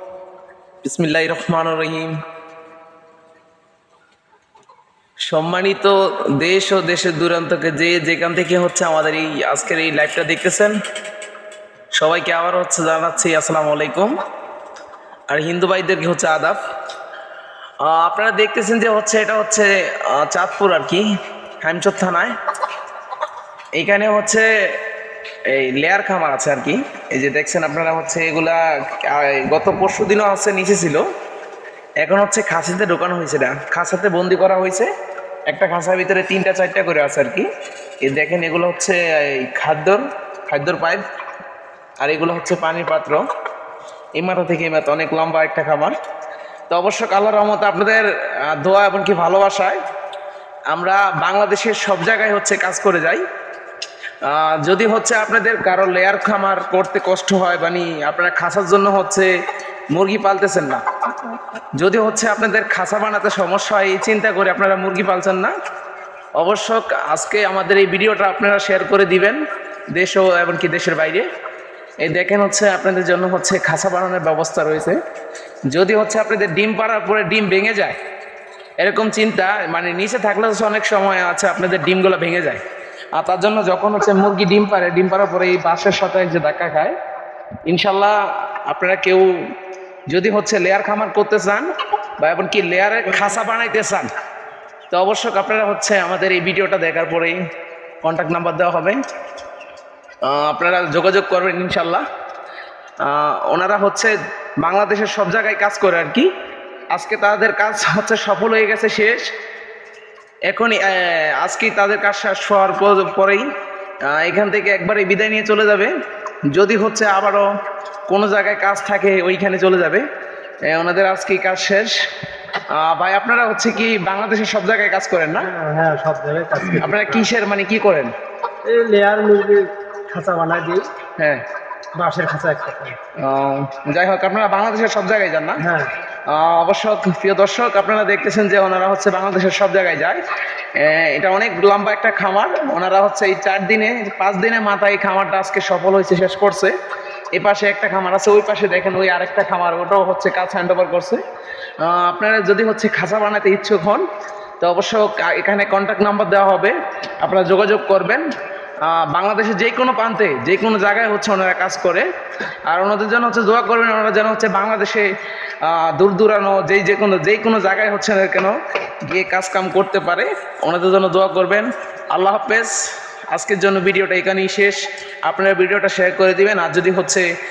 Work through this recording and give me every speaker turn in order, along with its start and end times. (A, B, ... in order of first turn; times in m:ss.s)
0:00.8-0:02.2 A
0:05.3-0:10.8 A
0:12.0-0:14.2 A
0:15.3-0:16.6 A
0:17.8-0:21.1 A
0:21.6-0:22.4 A
0:23.8-0:24.8 A
0:25.5-0:31.0 A
0:32.0-0:34.9 A
0:35.5-0:37.5 A
0:38.0-0:41.0 A
0:42.0-0:43.2 A
0:44.2-0:46.0 A
0:46.7-0:49.8 A
0:50.7-0:53.2 A
0:54.2-0:59.3 A
0:59.9-1:05.5 A
1:06.4-1:09.4 A
1:09.9-1:11.3 A
1:12.0-1:15.0 A
1:15.7-1:18.0 A
1:18.8-1:22.6 A
1:23.2-1:27.0 A
1:27.7-1:29.4 A
1:30.1-1:34.1 A
1:34.9-1:37.4 A
1:38.0-1:39.0 A
1:40.2-1:42.0 A
1:43.0-1:46.3 A
1:46.9-1:49.3 A
1:50.5-1:53.4 A
1:54.0-1:55.9 A
1:56.5-1:57.5 A
1:58.1-2:00.0 A
2:00.7-2:01.9 A
2:02.7-2:05.5 A
2:05.4-2:07.3 B
2:06.8-2:08.1 A
2:08.7-2:10.9 B
2:11.2-2:11.4 A
2:12.0-2:13.0 B
2:13.2-2:15.6 A
2:15.6-2:15.9 B
2:16.3-2:20.2 A
2:20.8-2:26.8 A
2:27.3-2:31.2 A
2:31.8-2:34.0 A
2:34.6-2:38.2 A
2:38.8-2:42.1 A
2:42.7-2:45.1 A
2:45.6-2:57.3 A